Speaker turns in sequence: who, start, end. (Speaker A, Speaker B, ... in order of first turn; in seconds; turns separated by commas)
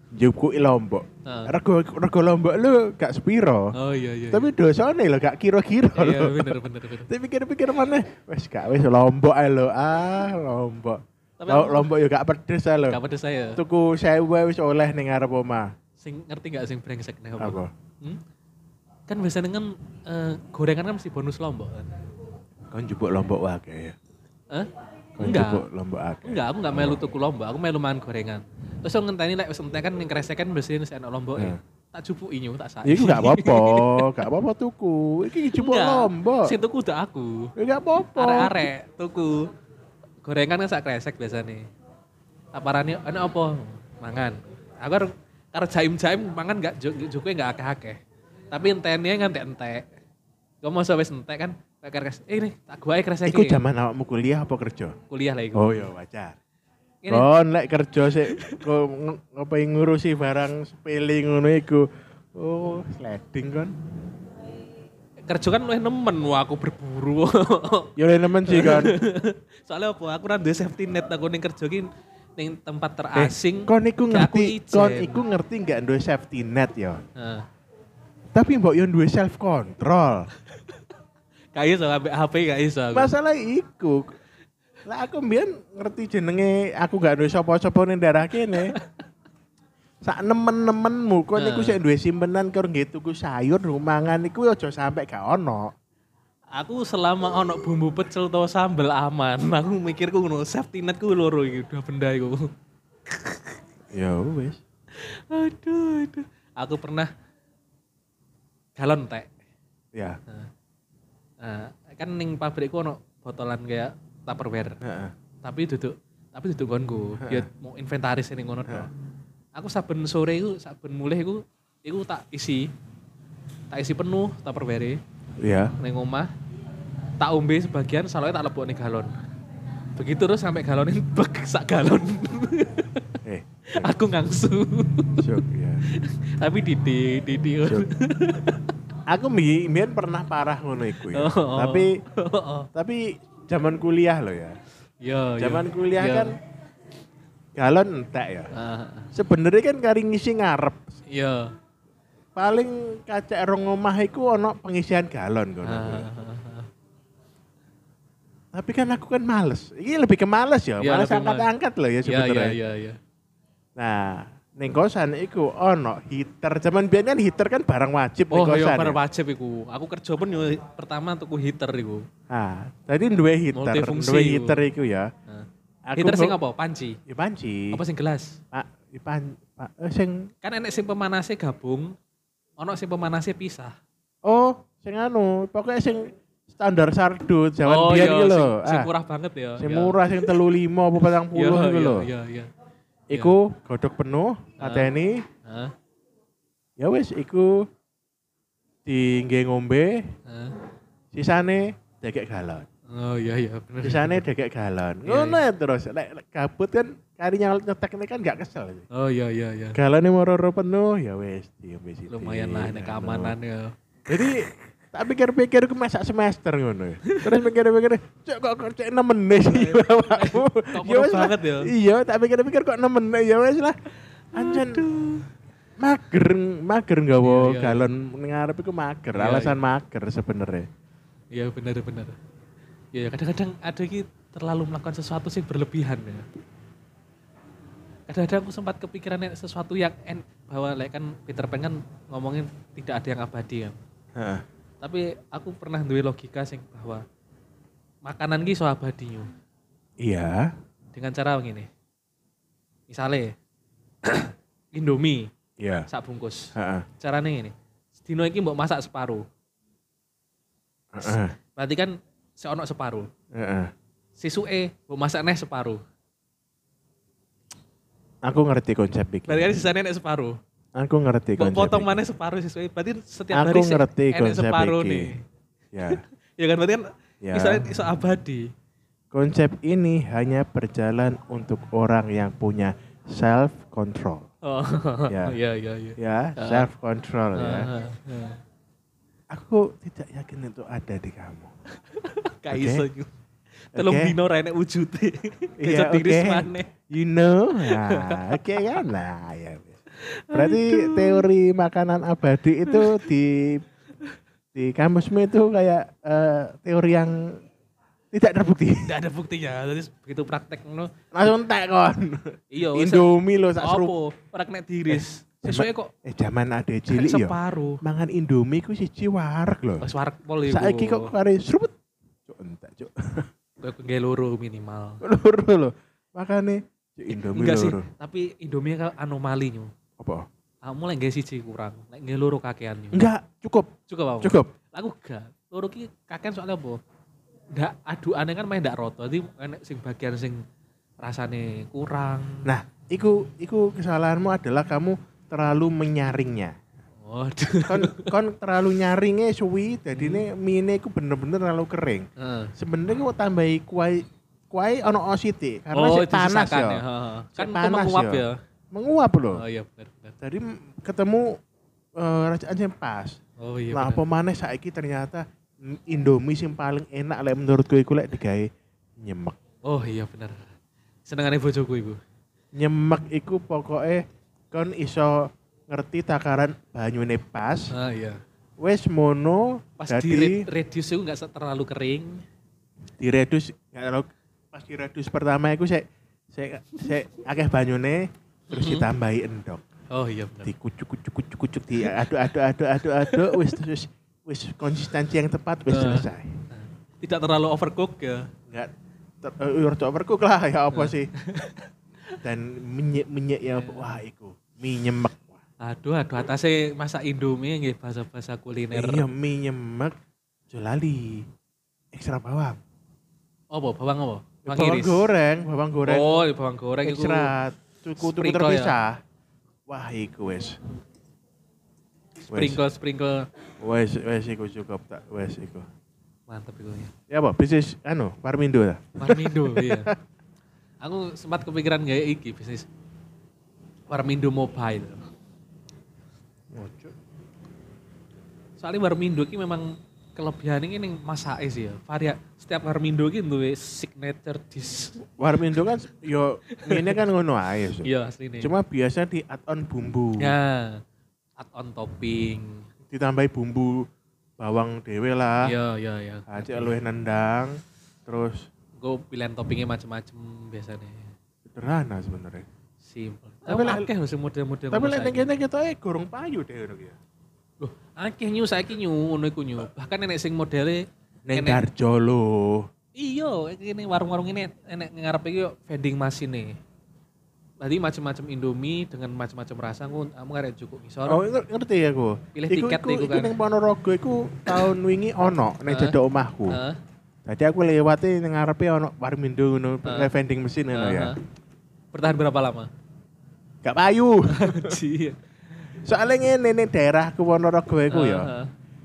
Speaker A: 0.1-3.7, Speaker B: 1.2-1.5, Speaker B: 3.7-4.5, Speaker A: 4.3-13.0, Speaker B: 6.0-7.1, Speaker B: 11.4-11.9, Speaker B: 12.9-13.6, Speaker A: 13.6-15.7, Speaker B: 16.0-18.2, Speaker A: 17.4-17.7, Speaker B: 19.1-21.9, Speaker A: 22.7-24.0, Speaker B: 24.5-25.6, Speaker A: 25.2-27.0, Speaker B: 26.2-34.2, Speaker A: 32.9-36.5, Speaker B: 35.5-37.5, Speaker A: 37.6-38.7, Speaker B: 38.1-39.5, Speaker B: 40.2-41.7, Speaker B: 42.5-48.0, Speaker B: 48.5-49.9, Speaker B: 50.6-53.6, Speaker A: 53.3-55.0, Speaker B: 55.1-55.9, Speaker A: 55.5-56.4, Speaker B: 57.0-57.3, Speaker A: 57.1-63.8, Speaker B: 58.3-58.6, Speaker B: 65.3-75.2, Speaker A: 68.0-69.0, Speaker A: 73.2-77.0, Speaker B: 77.2-77.5, Speaker A: 78.3-80.3, Speaker B: 80.5-80.8, Speaker B: 81.5-83.1, Speaker A: 82.9-84.2, Speaker A: 84.8-88.8, Speaker B: 88.5-88.9, Speaker A: 90.0-95.7, Speaker B: 91.4-91.8, Speaker B: 96.5-102.5, Speaker B: 103.1-103.6, Speaker A: 103.9-104.6, Speaker B: 105.0-107.1, Speaker B: 108.8-109.3, Speaker A: 109.9-110.2, Speaker B: 111.4-114.8, Speaker A: 114.8-115.1, Speaker B: 115.4-118.9, Speaker A: 117.2-117.5, Speaker B: 119.5-122.7, Speaker B: 123.7-125.0, Speaker A: 125.4-125.7, Speaker B: 125.8-126.3, Speaker B: 127.2-129.1, Speaker B: 130.0-133.1, Speaker A: 133.2-133.9, Speaker B: 133.7-138.8, Speaker A: 135.2-135.8, Speaker A: 139.1-142.0, Speaker B: 141.1-142.7, Speaker A: 142.7-144.6, Speaker B: 145.0-146.3, Speaker A: 145.4-146.3, Speaker A: 147.6-148.5, Speaker B: 148.5-149.1, Speaker A: 149.1-150.9, Speaker B: 151.1-151.5, Speaker A: 152.3-156.1, Speaker B: 155.6-156.7, Speaker A: 158.5-162.6, Speaker B: 160.8-161.5, Speaker B: 162.1-163.0, Speaker A: 163.8-169.0, Speaker B: 168.3-172.1, Speaker A: 172.3-175.1, Speaker B: 173.5-174.6, Speaker B: 175.3-177.0, Speaker A: 175.9-176.4, Speaker A: 177.1-177.8, Speaker B: 177.7-178.4, Speaker A: 178.5-180.3, Speaker B: 180.4-181.9, Speaker B: 182.6-183.8, Speaker A: 184.2-188.9, Speaker B: 187.6-190.4, Speaker A: 189.6-192.1, Speaker B: 191.3-192.5, Speaker A: 193.1-195.2, Speaker B: 194.6-194.9, Speaker B: 195.4-195.7, Speaker A: 196.8-197.7, Speaker A: 198.9-200.1, Speaker B: 200.3-200.6, Speaker A: 201.1-202.7, Speaker B: 202.9-204.2, Speaker A: 203.8-208.9, Speaker B: 205.1-205.4, Speaker B: 208.9-209.8, Speaker A: 209.7-213.3, Speaker B: 212.1-213.8, Speaker A: 214.1-223.8, Speaker B: 217.1-217.4, Speaker B: 219.5-221.7, Speaker A: 224.3-224.9, Speaker B: 224.3-225.3, Speaker A: 225.8-230.7, Speaker B: 227.2-227.9, Speaker B: 229.2-229.6, Speaker B: 231.3-232.2, Speaker B: 232.9-236.3, Speaker B: 238.1-243.8, Speaker A: 244.2-244.4, Speaker B: 244.8-247.1, Speaker B: 248.1-249.3, Speaker A: 250.0-250.5, Speaker B: 250.9-251.7, Speaker B: 252.9-253.3, Speaker B: 254.0-255.3, Speaker A: 255.6-255.9, Speaker B: 255.9-259.2, Speaker A: 256.6-256.9, Speaker A: 260.9-261.4, Speaker B: 261.0-263.1, Speaker A: 263.3-263.7, Speaker B: 264.2-265.8, Speaker A: 268.2-269.6, Speaker B: 269.3-270.4, Speaker A: 270.8-272.0, Speaker B: 271.4-275.2, Speaker A: 273.3-275.1, Speaker A: 275.7-276.0, Speaker B: 275.8-278.5, Speaker A: 277.2-277.7, Speaker A: 279.1-284.3, Speaker B: 284.4-286.7, Speaker A: 285.1-285.4, Speaker A: 286.0-287.7, Speaker B: 287.4-288.4, Speaker A: 289.3-291.5, Speaker B: 291.9-293.1, Speaker A: 292.5-292.9, Speaker B: 293.7-296.7, Speaker A: 293.8-294.1, Speaker A: 295.6-299.8, Speaker B: 297.6-298.8, Speaker B: 299.9-301.3, Speaker A: 300.3-303.6, Speaker B: 302.7-303.0, Speaker A: 304.5-307.4, Speaker A: 308.1-308.9, Speaker B: 308.8-310.9, Speaker A: 311.1-313.9, Speaker B: 312.5-315.9, Speaker A: 314.9-319.9, Speaker B: 316.9-317.8, Speaker B: 319.8-321.1, Speaker A: 320.5-321.7, Speaker A: 322.2-323.3, Speaker B: 323.6-325.0, Speaker A: 325.0-327.9, Speaker B: 327.1-329.7, Speaker A: 330.0-330.3, Speaker B: 330.6-333.1, Speaker A: 332.9-333.7, Speaker B: 333.9-336.8, Speaker A: 334.2-334.5, Speaker B: 337.5-340.4, Speaker B: 341.0-342.5, Speaker A: 342.4-346.6, Speaker B: 347.0-348.1, Speaker A: 347.6-356.8, Speaker B: 350.0-350.2, Speaker B: 352.2-352.5, Speaker B: 355.7-358.4, Speaker A: 357.4-359.4, Speaker B: 359.3-360.2, Speaker A: 360.2-361.4, Speaker A: 362.0-363.2, Speaker B: 363.4-364.0, Speaker A: 363.7-369.4, Speaker B: 369.6-370.5, Speaker B: 371.1-372.0, Speaker A: 372.5-377.7, Speaker B: 377.7-378.2, Speaker A: 378.6-380.4, Speaker B: 379.8-382.2, Speaker A: 383.0-389.6, Speaker B: 388.5-388.9, Speaker B: 389.9-390.5, Speaker A: 390.4-396.3, Speaker B: 393.1-393.5, Speaker B: 395.7-398.3, Speaker A: 399.2-401.1, Speaker B: 400.7-402.2, Speaker A: 402.2-405.4, Speaker B: 403.6-404.0, Speaker B: 405.6-409.1, Speaker A: 408.7-409.9, Speaker A: 410.5-411.3, Speaker A: 411.9-412.6, Speaker B: 413.5-415.1, Speaker A: 414.4-416.1, Speaker B: 415.9-417.3, Speaker A: 416.8-419.0, Speaker B: 418.0-418.7, Speaker A: 419.7-420.6, Speaker B: 422.3-423.3, Speaker A: 422.3-422.6, Speaker A: 423.6-425.7, Speaker B: 426.3-426.9, Speaker A: 427.1-430.0, Speaker B: 429.0-429.9, Speaker B: 430.8-432.7, Speaker B: 433.9-435.0, Speaker A: 436.5-436.9, Speaker B: 438.6-445.0, Speaker A: 445.2-450.4, Speaker B: 446.5-447.0, Speaker B: 447.8-448.5, Speaker B: 450.2-450.8, Speaker B: 451.4-452.7, Speaker A: 452.9-453.9, Speaker A: 454.4-455.5, Speaker B: 455.4-456.8, Speaker A: 456.3-458.5, Speaker B: 458.8-461.1, Speaker A: 461.5-462.5, Speaker B: 462.8-465.3, Speaker A: 463.5-463.9, Speaker A: 464.7-467.0, Speaker B: 467.6-471.6, Speaker A: 471.3-472.7, Speaker B: 473.0-476.6, Speaker B: 477.6-481.2, Speaker A: 481.1-486.6, Speaker B: 482.4-483.3, Speaker B: 485.7-486.0, Speaker B: 486.5-486.8, Speaker A: 487.3-491.1, Speaker B: 490.7-491.2, Speaker B: 491.9-492.7, Speaker A: 493.6-494.8, Speaker B: 494.3-495.7, Speaker A: 495.8-498.3, Speaker B: 497.9-498.5